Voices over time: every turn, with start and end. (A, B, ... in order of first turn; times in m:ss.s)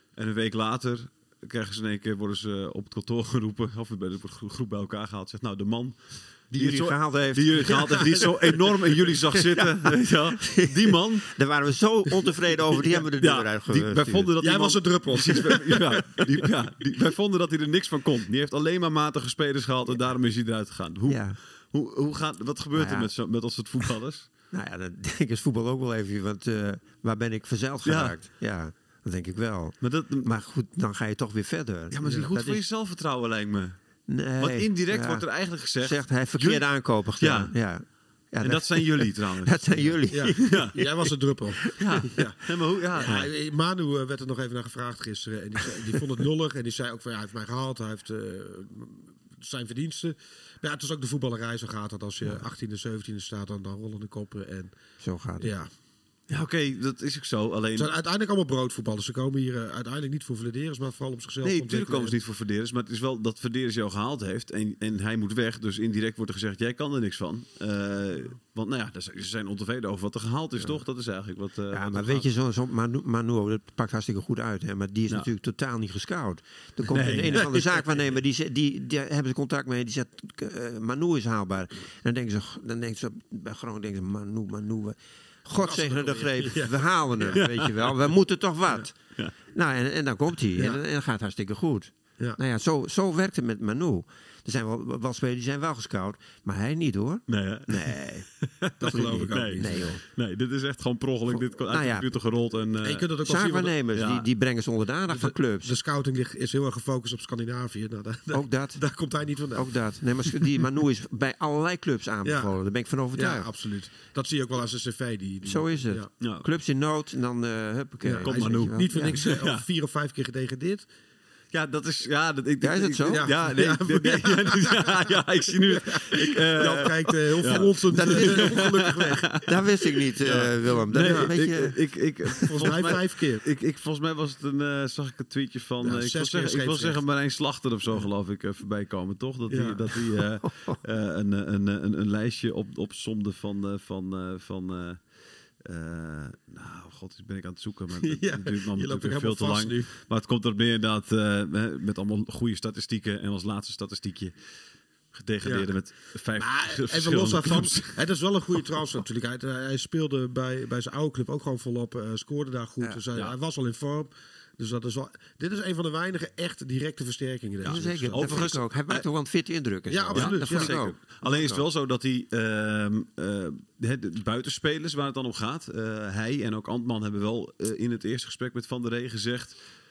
0:00.1-0:11.3 A
0:06.5-0:14.3 B
0:12.9-0:24.3 A
0:14.4-0:16.5 C
0:21.1-0:21.4 B
0:22.8-0:23.1 B
0:24.5-0:32.6 B
0:27.8-0:28.2 A
0:29.8-0:30.3 A
0:31.9-0:33.8 A
0:32.0-0:32.3 C
0:34.1-0:35.2 B
0:34.4-0:37.5 A
0:35.8-0:41.1 B
0:38.4-0:40.8 A
0:40.1-0:54.7 C
0:41.6-0:42.2 B
0:41.8-0:43.3 A
0:55.0-0:55.5 B
0:55.4-0:55.7 C
0:56.3-0:57.9 A
0:57.8-1:02.2 C
1:01.4-1:12.3 A
1:11.7-1:29.0 B
1:16.9-1:17.9 A
1:25.6-1:27.4 C
1:27.4-1:28.0 A
1:29.5-1:38.3 B
1:37.3-1:44.3 A
1:38.8-1:39.9 C
1:38.8-1:40.0 B
1:41.3-1:42.1 B
1:42.8-1:43.7 C
1:43.2-1:45.7 B
1:45.1-1:49.7 C
1:48.3-1:48.8 B
1:49.6-1:53.5 B
1:50.2-1:50.5 C
1:52.2-1:52.5 C
1:53.1-1:56.1 C
1:55.4-1:59.2 B
1:56.2-1:56.5 A
1:58.0-2:00.9 C
1:58.2-1:59.6 A
2:01.5-2:25.0 A
2:02.6-2:03.3 B
2:03.1-2:09.4 C
2:07.9-2:08.6 B
2:09.4-2:11.8 B
2:11.0-2:11.4 C
2:12.5-2:13.4 C
2:15.8-2:17.0 C
2:19.5-2:19.9 C
2:20.5-2:20.8 B
2:25.6-2:34.4 A
2:28.0-2:29.9 C
2:35.1-2:38.0 A
2:35.4-2:35.7 C
2:36.4-2:48.5 C
2:47.6-2:51.6 B
2:48.2-2:49.0 A
2:49.9-2:50.8 C
2:50.1-2:59.6 A